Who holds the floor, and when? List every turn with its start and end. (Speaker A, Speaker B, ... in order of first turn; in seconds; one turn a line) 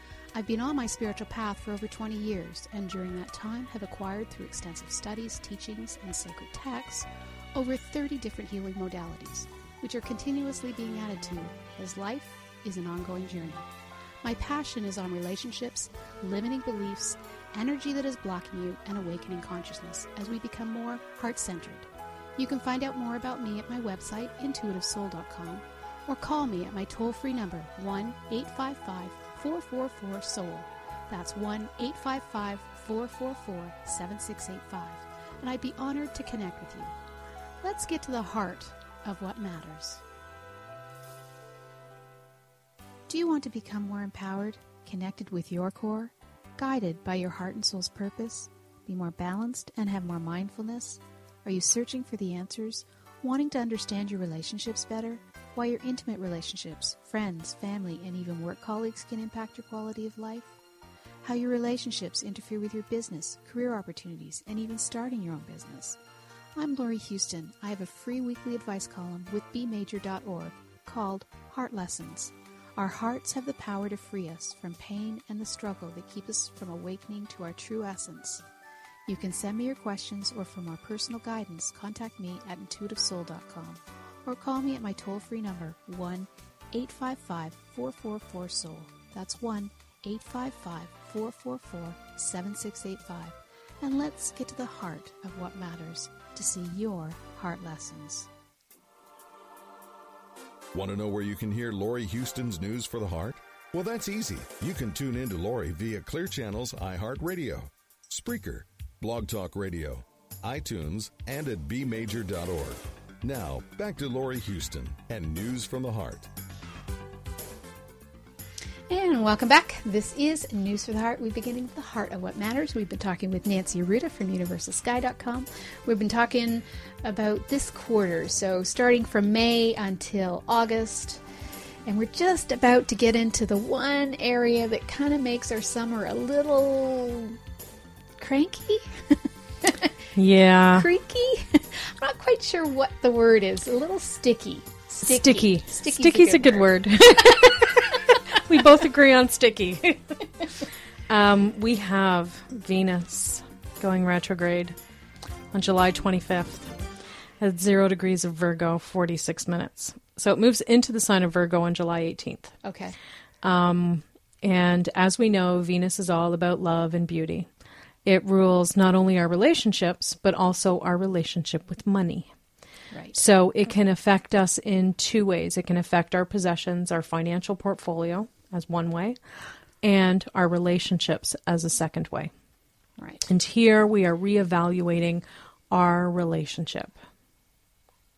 Speaker A: 0.3-13.6
Speaker A: 14.2-36.9
Speaker A: 37.6-40.0
Speaker A: 43.1-60.5
Speaker A: 61.2-66.0
Speaker A: 66.5-78.4
Speaker A: 79.1-98.3
Speaker B: 100.7-116.3
Speaker A: 118.9-131.2
Speaker A: 131.8-137.4
Speaker A: 138.2-139.9
Speaker C: 140.1-140.9
Speaker A: 140.7-148.4
Speaker C: 145.0-154.8
Speaker C: 155.5-156.8
Speaker C: 157.4-162.6
Speaker A: 162.6-163.0
Speaker C: 163.4-167.5
Speaker C: 168.0-172.3
Speaker A: 172.9-173.2
Speaker C: 173.1-182.3
Speaker A: 183.0-183.3
Speaker C: 183.3-186.9